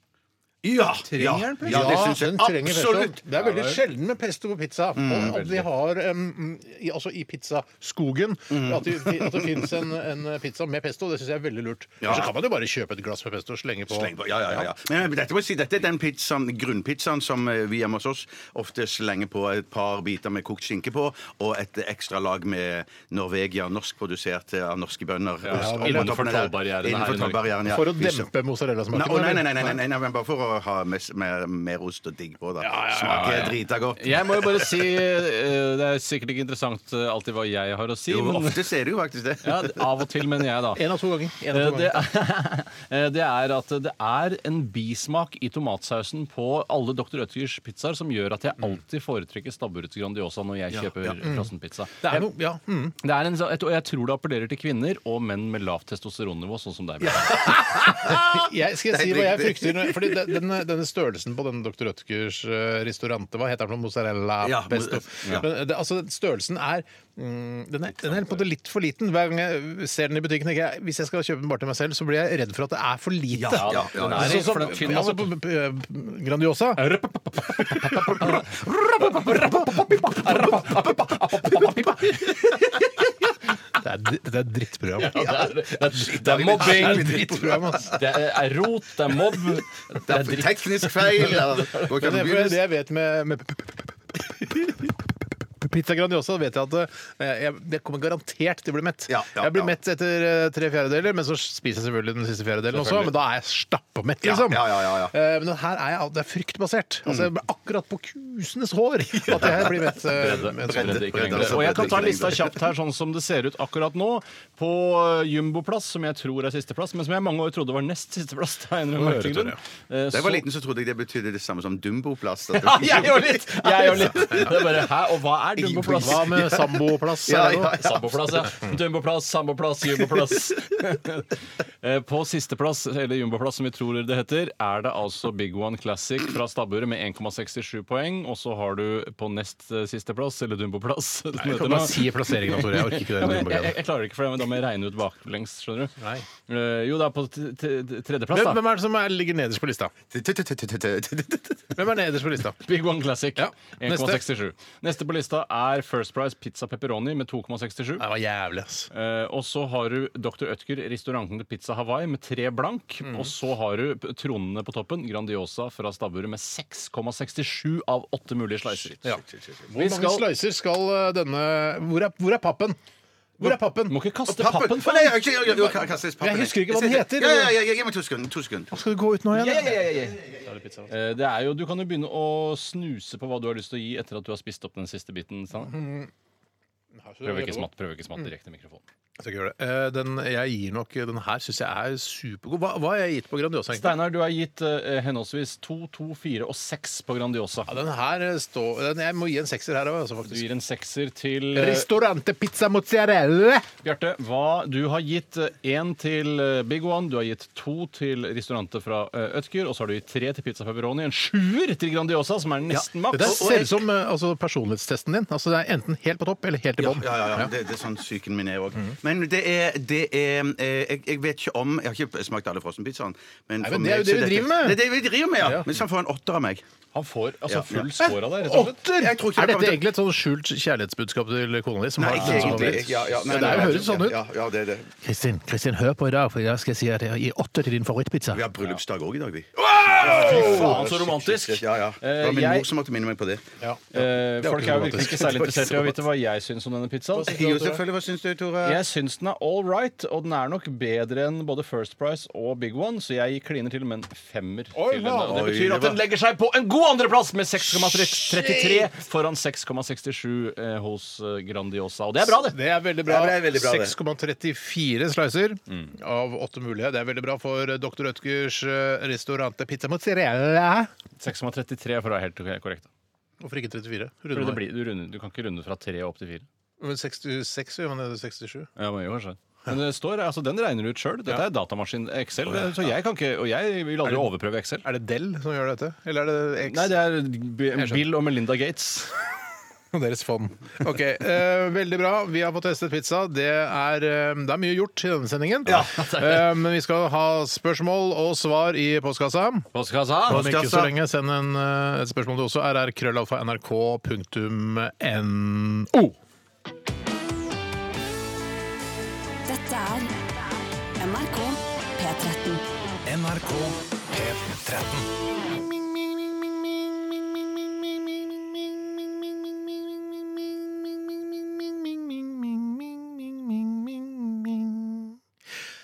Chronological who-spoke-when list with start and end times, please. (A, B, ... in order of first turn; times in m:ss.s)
0:00.6-0:03.2 A
0:01.0-0:02.2 B
0:01.6-0:14.6 C
0:03.4-0:03.8 B
0:05.0-0:05.5 A
0:05.3-0:05.6 B
0:08.5-0:09.7 A
0:12.0-0:12.3 A
0:13.9-0:28.3 A
0:25.4-0:27.5 B
0:25.5-0:26.2 C
0:27.7-0:29.8 C
0:28.9-0:34.9 A
0:32.6-0:33.5 C
0:33.1-0:38.6 B
0:38.1-0:40.0 A
0:39.4-0:40.8 B
0:40.7-0:42.1 C
0:41.5-0:52.2 B
0:51.2-0:51.5 C
0:52.0-0:53.0 C
0:53.0-0:57.5 B
0:57.0-1:00.4 A
0:57.3-1:16.9 C
1:04.4-1:05.5 A
1:13.3-1:14.8 A
1:13.5-1:15.3 B
1:16.8-1:22.8 B
1:17.7-1:18.4 C
1:19.2-1:19.9 C
1:23.8-1:25.1 C
1:25.0-1:31.9 B
1:25.1-1:28.0 A
1:26.5-1:28.0 C
1:30.1-1:32.6 A
1:31.9-1:34.9 C
1:35.6-1:52.2 C
1:39.1-1:39.7 A
1:42.8-1:43.1 B
1:44.2-1:45.1 A
1:49.4-1:49.7 A
1:50.1-2:00.4 B
1:50.6-1:52.6 A
1:59.0-1:59.6 C
2:00.1-2:04.8 A
2:02.5-2:06.6 B
2:05.6-2:08.5 A
2:06.0-2:07.8 C
2:07.7-2:28.6 B
2:21.4-2:23.8 C
2:26.0-2:26.3 C
2:28.3-2:29.9 C
2:30.1-2:31.7 A
2:31.8-2:32.6 C
2:32.6-2:38.0 B
2:33.4-2:34.2 C
2:38.0-2:38.9 C
2:38.9-2:49.1 B
2:49.0-2:52.8 C
2:49.2-2:49.6 A
2:49.7-2:50.3 B
2:53.4-2:54.0 C
2:53.4-2:55.2 B
2:54.3-2:58.7 A
2:56.2-2:57.6 C
2:58.7-3:00.9 C
2:59.3-3:00.2 B
3:00.9-3:05.7 B
3:05.6-3:06.1 C
3:07.0-3:07.7 C
3:07.2-3:08.8 B
3:09.2-3:14.0 C
3:13.7-3:17.7 B
3:17.7-3:20.5 C
3:20.3-3:21.9 B
3:21.6-3:23.7 C
3:23.8-3:33.4 B
3:32.7-3:33.8 A
3:33.1-3:37.5 C
3:36.8-3:46.6 A
3:43.6-3:44.8 C
3:45.4-3:45.7 C
3:46.9-3:48.8 B
3:47.5-3:47.9 A
3:48.0-3:54.2 C
3:49.0-3:49.8 A
3:52.0-3:54.9 A
3:52.1-3:53.8 B
3:55.0-3:58.5 C
3:58.3-4:03.4 A
3:59.6-4:00.9 C
3:59.8-4:02.7 B
4:03.6-4:05.7 C
4:03.9-4:07.8 B
4:05.2-4:05.7 A
4:07.2-4:08.8 A
4:08.6-4:22.6 B
4:14.7-4:15.5 C
4:15.3-4:16.0 A
4:17.7-4:18.9 C
4:22.3-4:30.9 C
4:23.1-4:24.0 A
4:31.2-4:32.9 B
4:33.4-4:34.6 C
4:34.3-4:36.5 B
4:36.8-4:38.7 C
4:38.8-4:44.8 B
4:44.8-4:46.9 C
4:46.7-4:49.1 B
4:47.8-4:48.1 C
4:49.9-4:59.7 C
4:55.7-4:56.5 B
4:55.7-4:55.9 A
4:59.7-5:00.4 B
5:00.3-5:00.9 A
5:00.3-5:06.2 C
5:09.5-5:10.1 D
5:11.0-5:12.6 D
5:14.2-5:15.0 C
5:21.5-5:25.2 C